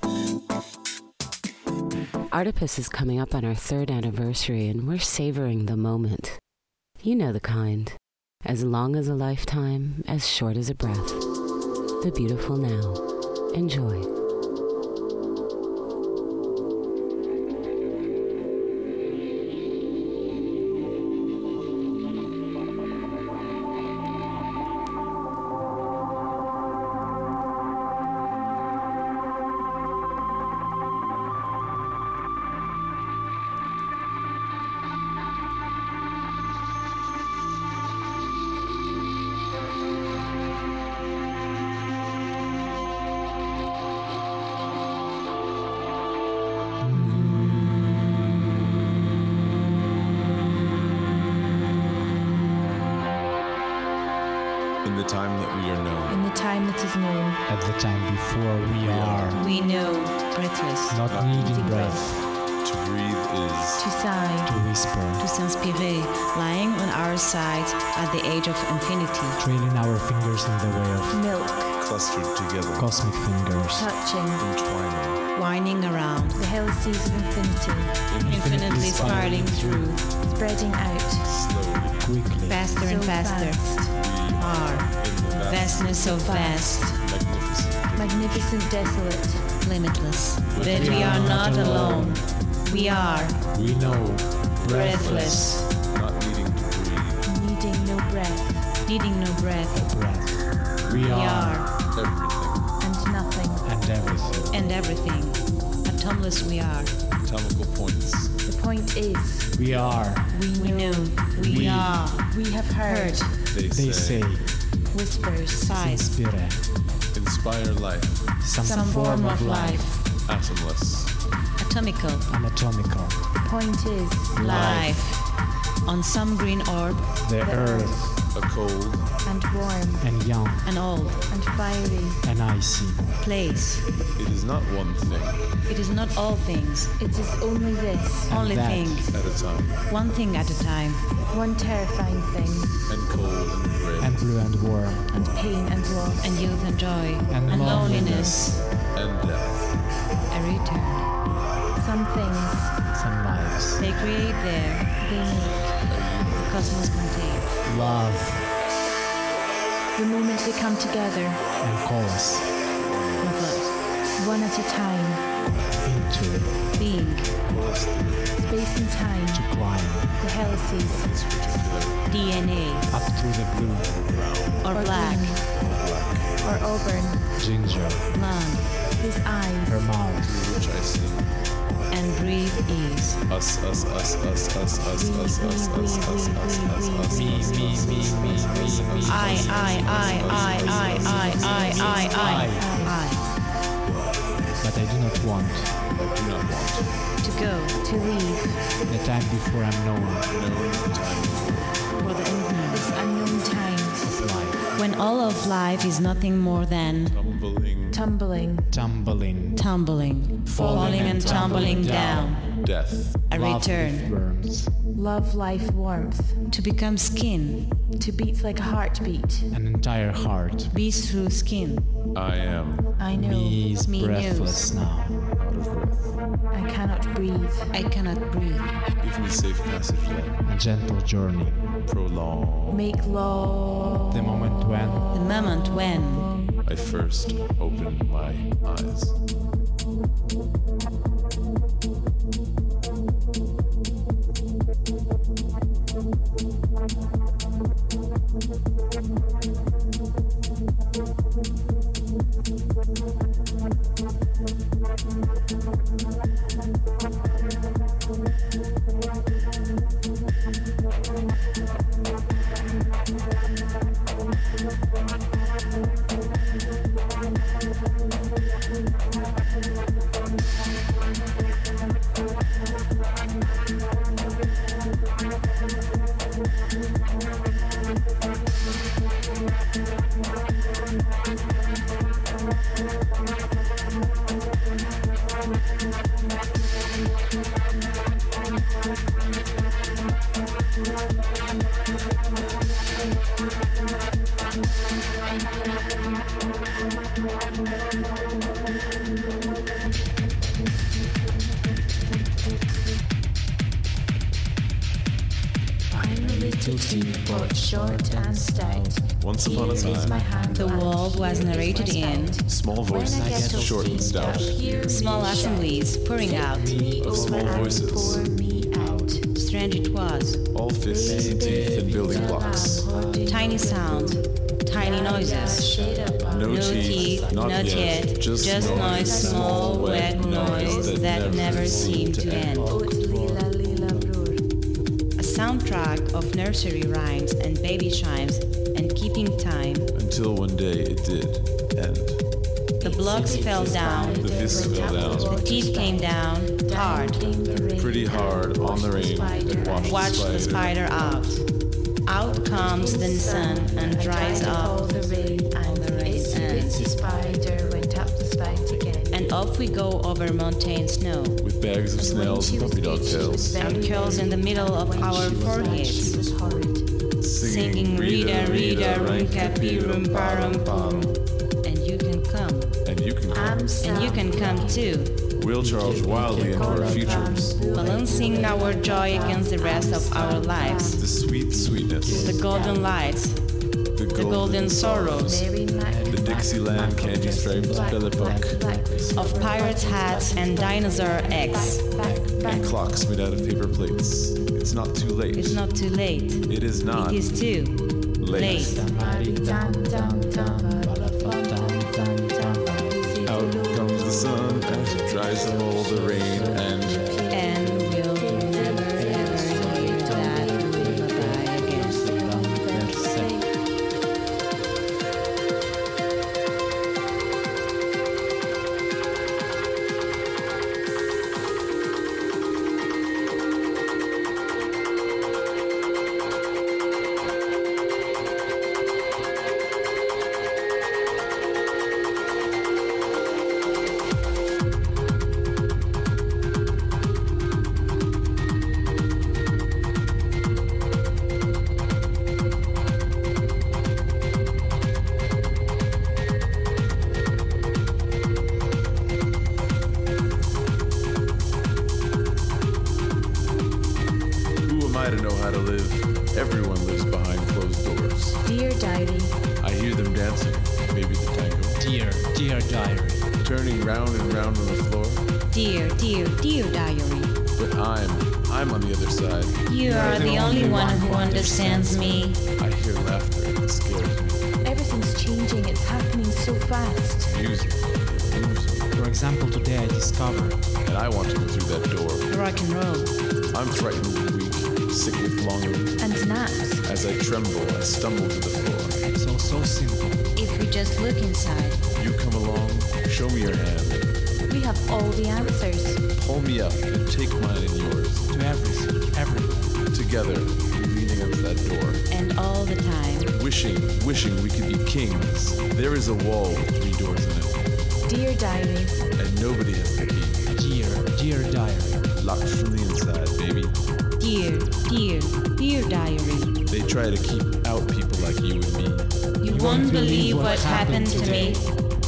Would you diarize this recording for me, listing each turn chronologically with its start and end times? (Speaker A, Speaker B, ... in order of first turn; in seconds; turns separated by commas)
Speaker A: 2.3-6.4, Speaker A: 7.0-11.2, Speaker A: 12.0-13.0, Speaker A: 13.5-14.1, Speaker B: 54.8-56.2, Speaker C: 56.0-57.4, Speaker D: 57.5-59.4, Speaker B: 58.8-59.4, Speaker C: 59.3-60.2, Speaker E: 59.4-61.0, Speaker D: 60.9-62.2, Speaker B: 61.1-62.1, Speaker C: 61.4-62.0, Speaker B: 62.6-63.8, Speaker C: 63.8-64.5, Speaker D: 64.4-65.2, Speaker E: 65.2-69.4, Speaker D: 69.4-71.2, Speaker C: 71.1-71.8, Speaker B: 71.8-72.9, Speaker D: 72.8-73.9, Speaker C: 73.7-74.5, Speaker B: 74.4-75.2, Speaker E: 75.3-76.4, Speaker C: 76.3-78.0, Speaker B: 78.1-79.3, Speaker D: 78.2-80.0, Speaker E: 78.2-80.0, Speaker C: 80.2-81.3, Speaker B: 81.2-82.2, Speaker D: 82.0-82.6, Speaker E: 82.5-86.9, Speaker C: 82.8-83.9, Speaker B: 83.9-86.0, Speaker C: 86.0-87.0, Speaker B: 86.9-88.6, Speaker C: 88.0-89.5, Speaker E: 89.6-93.4, Speaker B: 90.5-91.9, Speaker D: 90.6-92.3, Speaker C: 92.6-93.4, Speaker B: 93.5-97.2, Speaker D: 93.5-95.6, Speaker E: 94.7-95.7, Speaker C: 97.2-98.7, Speaker E: 98.8-99.8, Speaker D: 99.7-101.7, Speaker E: 101.0-101.7, Speaker B: 101.8-102.7, Speaker C: 102.8-103.7, Speaker D: 103.6-104.5, Speaker B: 104.2-104.5, Speaker E: 104.5-106.9, Speaker B: 107.2-108.3, Speaker C: 108.5-109.6, Speaker D: 109.5-110.3, Speaker C: 110.3-113.4, Speaker E: 110.5-112.2, Speaker D: 111.3-111.9, Speaker B: 111.5-112.3, Speaker E: 112.8-113.3, Speaker B: 113.5-114.3, Speaker D: 113.7-114.5, Speaker C: 114.9-115.7, Speaker E: 115.6-116.1, Speaker D: 115.7-116.6, Speaker B: 117.1-118.3, Speaker D: 118.4-119.9, Speaker E: 118.6-120.0, Speaker B: 120.2-121.1, Speaker E: 121.6-122.2, Speaker D: 122.3-123.2, Speaker C: 123.4-124.5, Speaker D: 124.3-125.0, Speaker E: 124.4-125.3, Speaker E: 125.8-127.1, Speaker D: 127.2-128.1, Speaker C: 127.4-128.1, Speaker B: 128.3-129.1, Speaker C: 129.2-130.1, Speaker D: 130.0-130.7, Speaker E: 130.6-131.2, Speaker C: 131.3-132.2, Speaker D: 132.2-133.1, Speaker E: 133.2-133.8, Speaker B: 134.2-135.5, Speaker E: 135.7-136.9, Speaker C: 137.0-138.3, Speaker D: 138.3-139.1, Speaker E: 138.3-139.2, Speaker B: 139.1-139.8, Speaker E: 139.9-141.0, Speaker C: 141.3-142.8, Speaker B: 142.9-144.2, Speaker D: 144.0-145.1, Speaker C: 145.1-146.3, Speaker E: 146.2-148.6, Speaker D: 147.3-148.6, Speaker B: 148.9-149.7, Speaker E: 150.3-151.1, Speaker C: 151.8-152.7, Speaker D: 152.9-153.8, Speaker E: 153.8-154.9, Speaker C: 155.0-155.9, Speaker B: 155.8-156.9, Speaker E: 156.4-157.5, Speaker D: 157.6-158.5, Speaker C: 159.9-161.4, Speaker D: 161.6-162.5, Speaker B: 162.7-163.7, Speaker E: 163.2-163.7, Speaker C: 164.2-165.2, Speaker D: 165.8-166.6, Speaker E: 166.8-167.3, Speaker B: 167.5-168.4, Speaker C: 168.4-169.5, Speaker D: 169.3-170.2, Speaker C: 170.2-171.1, Speaker B: 170.8-172.0, Speaker E: 172.1-172.9, Speaker D: 172.9-173.9, Speaker B: 173.9-174.6, Speaker E: 174.6-175.4, Speaker C: 174.7-175.4, Speaker B: 175.5-176.3, Speaker C: 176.4-177.2, Speaker D: 177.4-178.1, Speaker E: 178.1-178.7, Speaker C: 179.0-179.8, Speaker D: 179.6-180.6, Speaker B: 180.2-181.3, Speaker E: 181.9-183.2, Speaker B: 183.3-191.8, Speaker C: 184.9-189.1, Speaker D: 187.1-193.0, Speaker E: 189.1-193.2, Speaker C: 189.8-193.0, Speaker D: 194.6-195.8, Speaker B: 195.9-196.9, Speaker E: 197.2-197.8, Speaker C: 197.8-198.6, Speaker D: 198.8-200.3, Speaker B: 200.3-201.8, Speaker E: 202.0-202.9, Speaker C: 202.7-204.1, Speaker D: 204.0-204.7, Speaker E: 204.7-207.2, Speaker B: 207.0-208.0, Speaker C: 207.9-208.7, Speaker D: 208.7-209.6, Speaker E: 209.5-212.5, Speaker D: 210.4-212.4, Speaker C: 210.5-212.1, Speaker B: 212.6-213.2, Speaker E: 213.3-214.1, Speaker D: 213.3-214.7, Speaker C: 214.9-216.4, Speaker E: 216.5-217.7, Speaker C: 217.9-219.5, Speaker D: 219.5-220.7, Speaker E: 220.7-221.8, Speaker B: 222.1-222.9, Speaker C: 223.0-223.6, Speaker D: 223.1-225.2, Speaker E: 223.8-224.7, Speaker B: 225.4-226.2, Speaker C: 226.5-227.7, Speaker E: 227.7-228.7, Speaker B: 229.0-230.4, Speaker D: 230.4-231.7, Speaker B: 231.8-232.9, Speaker C: 232.7-234.2, Speaker D: 234.1-235.1, Speaker E: 235.1-236.3, Speaker B: 236.6-239.2, Speaker D: 305.9-311.9, Speaker C: 305.9-319.2, Speaker B: 309.2-310.2, Speaker E: 310.5-312.4, Speaker B: 312.4-314.6, Speaker D: 313.0-315.6, Speaker E: 314.8-316.8, Speaker D: 316.3-319.1, Speaker B: 317.0-318.3, Speaker E: 319.3-320.4, Speaker B: 320.5-322.9, Speaker C: 320.8-327.0, Speaker D: 321.0-323.9, Speaker E: 323.2-325.8, Speaker D: 325.0-329.8, Speaker B: 326.3-332.7, Speaker E: 326.4-332.7, Speaker C: 328.4-331.6, Speaker D: 331.0-334.1, Speaker C: 332.6-334.4, Speaker E: 335.2-339.9, Speaker B: 339.9-342.2, Speaker E: 342.8-347.2, Speaker C: 342.8-350.3, Speaker D: 343.1-345.4, Speaker B: 344.1-345.4, Speaker D: 346.9-347.7, Speaker B: 347.8-351.3, Speaker D: 349.3-349.7, Speaker E: 349.7-351.4, Speaker E: 352.1-354.9, Speaker D: 352.2-359.2, Speaker C: 352.6-359.2, Speaker E: 355.6-356.8, Speaker E: 359.1-361.4, Speaker B: 361.4-363.6, Speaker C: 361.9-366.9, Speaker D: 363.3-366.7, Speaker E: 363.6-366.2, Speaker B: 367.2-371.2, Speaker E: 367.4-371.1, Speaker E: 371.6-372.8, Speaker B: 372.8-373.7, Speaker C: 373.3-374.9, Speaker E: 373.8-375.1, Speaker D: 373.8-374.9, Speaker B: 375.3-377.6, Speaker D: 375.5-382.9, Speaker C: 376.0-381.1, Speaker E: 377.7-381.1, Speaker B: 380.9-382.4, Speaker C: 382.1-382.8, Speaker E: 382.1-383.4, Speaker B: 383.9-385.5, Speaker E: 384.1-385.4, Speaker C: 385.2-392.8, Speaker D: 385.7-392.6, Speaker B: 386.1-388.6, Speaker E: 389.1-391.8, Speaker B: 392.4-395.6, Speaker E: 395.3-398.8, Speaker B: 396.5-397.3, Speaker B: 398.2-398.8, Speaker D: 398.3-413.4, Speaker C: 398.6-405.3, Speaker B: 403.2-407.1, Speaker C: 406.4-413.5, Speaker E: 407.3-412.1, Speaker B: 454.6-458.4, Speaker C: 458.4-459.4, Speaker B: 459.6-461.8, Speaker D: 461.8-463.3, Speaker B: 463.4-465.3, Speaker E: 465.5-467.4, Speaker B: 467.6-469.6, Speaker E: 469.7-472.4, Speaker D: 469.8-472.3, Speaker B: 472.6-474.4, Speaker C: 474.6-477.3, Speaker B: 477.2-478.9, Speaker D: 478.9-480.6, Speaker B: 480.8-482.3, Speaker E: 482.3-483.1, Speaker B: 483.5-486.0, Speaker C: 486.0-486.9, Speaker B: 486.8-489.0, Speaker D: 489.1-490.3, Speaker E: 490.4-491.8, Speaker B: 491.9-494.1, Speaker C: 494.5-496.0, Speaker B: 496.1-498.3, Speaker D: 498.3-499.8, Speaker B: 499.9-502.1, Speaker E: 502.1-503.3, Speaker B: 503.3-507.6, Speaker C: 508.1-509.0, Speaker B: 509.1-510.4, Speaker D: 510.5-512.1, Speaker B: 512.1-513.8, Speaker E: 514.2-516.6, Speaker B: 516.7-519.2, Speaker E: 519.4-521.6, Speaker D: 519.4-521.7, Speaker C: 520.1-521.6